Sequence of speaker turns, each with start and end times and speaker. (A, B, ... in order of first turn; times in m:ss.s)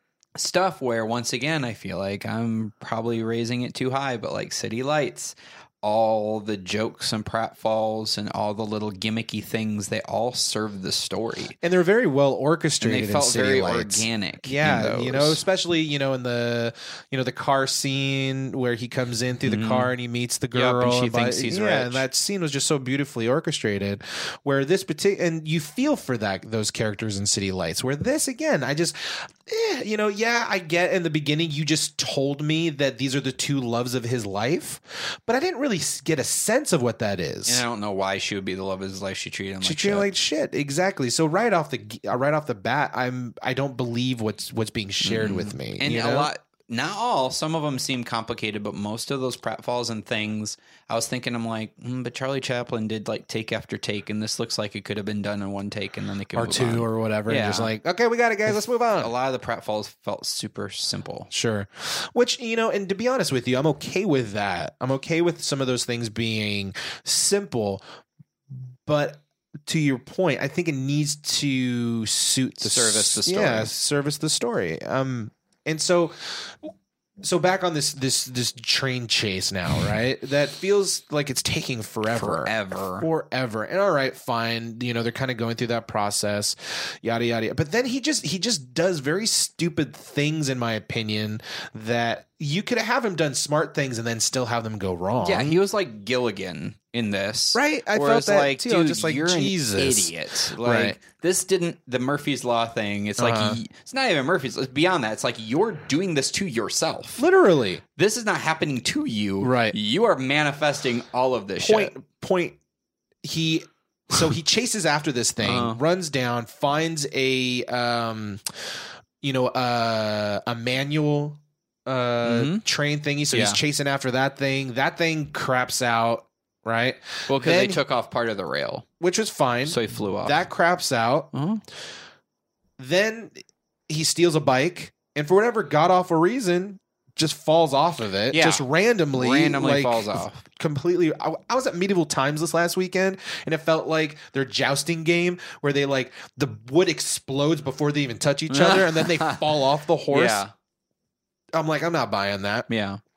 0:00.4-0:11.6 A
0:11.6-0:37.6 B
0:12.8-0:15.4 A
0:19.5-0:19.9 A
0:20.5-0:22.0 A
0:37.5-0:40.1 A
0:39.6-0:46.3 B
0:45.0-0:57.7 A
0:56.4-0:59.1 B
0:59.0-1:01.3 A
1:01.3-1:07.8 B
1:08.9-1:16.7 B
1:12.6-1:13.7 A
1:17.2-1:35.6 B
1:22.1-1:23.1 A
1:35.2-1:47.3 A
1:37.5-1:41.0 B
1:43.2-1:43.6 B
1:47.2-1:47.8 B
1:48.0-1:51.9 A
1:49.4-1:49.8 B
1:51.6-1:52.6 B
1:53.2-1:58.4 B
1:55.4-1:55.8 A
1:59.2-2:07.8 B
2:02.2-2:02.6 A
2:03.3-2:03.6 A
2:07.3-2:08.8 A
2:09.0-2:11.3 B
2:09.7-2:10.4 A
2:11.3-2:11.6 A
2:12.8-2:13.4 B
2:13.9-2:30.4 B
2:18.3-2:20.4 A
2:28.5-2:30.5 A
2:31.5-2:32.7 B
2:32.7-2:33.0 A